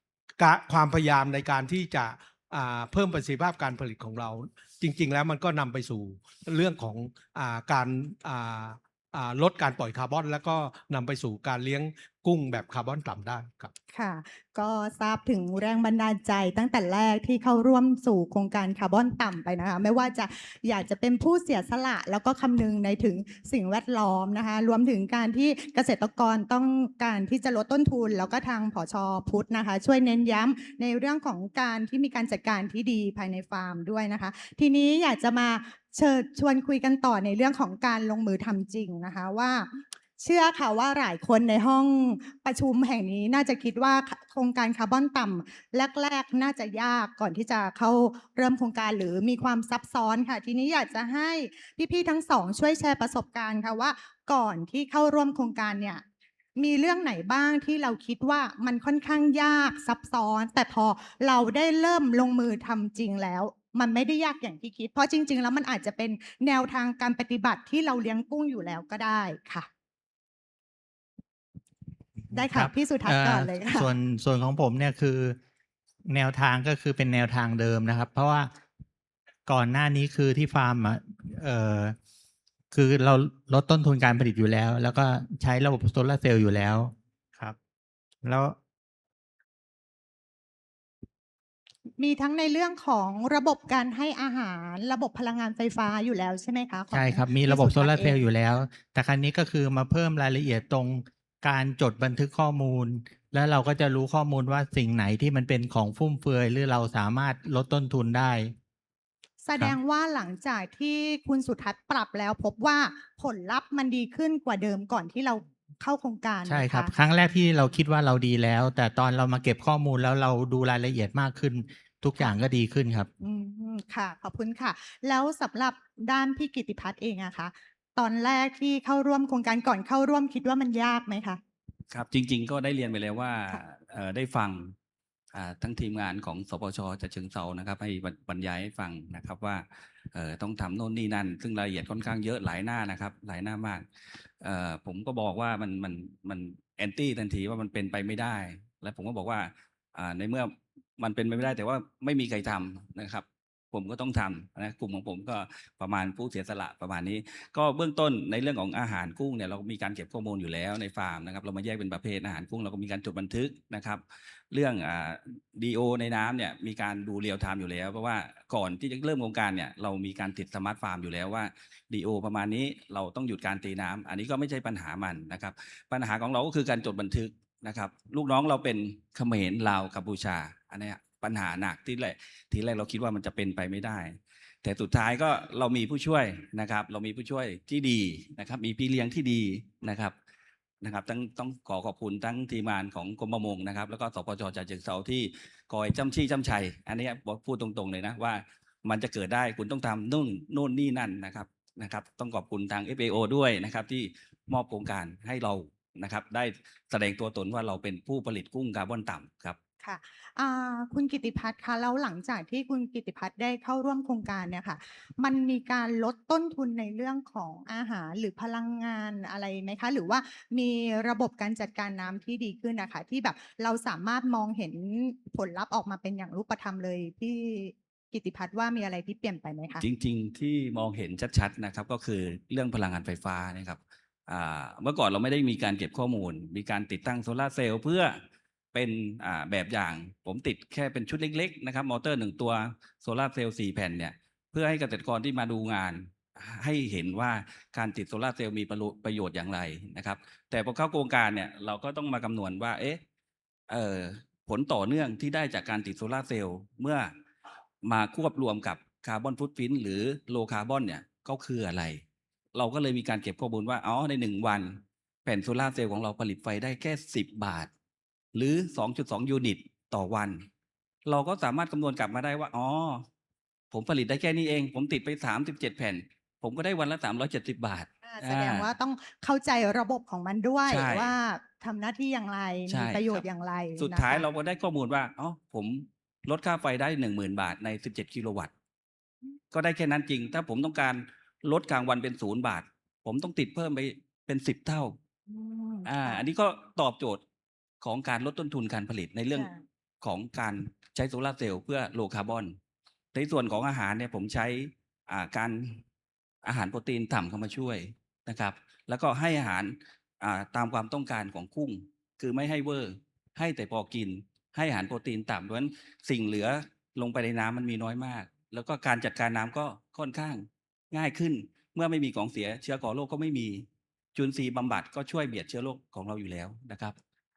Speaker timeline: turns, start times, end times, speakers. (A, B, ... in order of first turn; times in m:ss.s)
0:00.4-0:13.7 A
0:13.9-0:56.0 B
0:56.6-1:09.7 B
1:12.3-1:13.9 B
1:12.3-1:15.4 C
1:16.1-1:18.5 C
1:19.4-1:22.0 C
1:22.7-1:27.6 C
1:28.2-1:28.6 C
1:32.0-1:38.2 B
1:36.9-1:48.5 C
1:49.4-1:56.9 B
1:56.4-2:03.1 C
2:03.2-2:11.4 B
2:11.9-2:14.7 D
2:15.3-2:23.8 D
2:24.4-3:10.1 D
3:10.8-3:29.6 D
3:29.8-3:49.8 B
3:49.8-3:58.2 D
3:58.7-4:13.0 D
4:13.7-4:17.1 D
4:17.8-4:22.0 D
4:22.5-4:27.7 D
4:28.3-4:30.4 D
4:31.0-4:33.0 D
4:33.7-4:38.7 D
4:38.0-4:44.2 B
4:40.7-4:41.1 D
4:42.7-4:43.2 D
4:43.8-4:48.5 D
4:49.5-4:55.0 D
4:55.3-4:56.2 B
4:55.8-4:57.2 D
4:57.8-4:59.5 D
5:00.0-5:02.5 D
5:03.1-5:05.8 D
5:06.4-5:27.0 D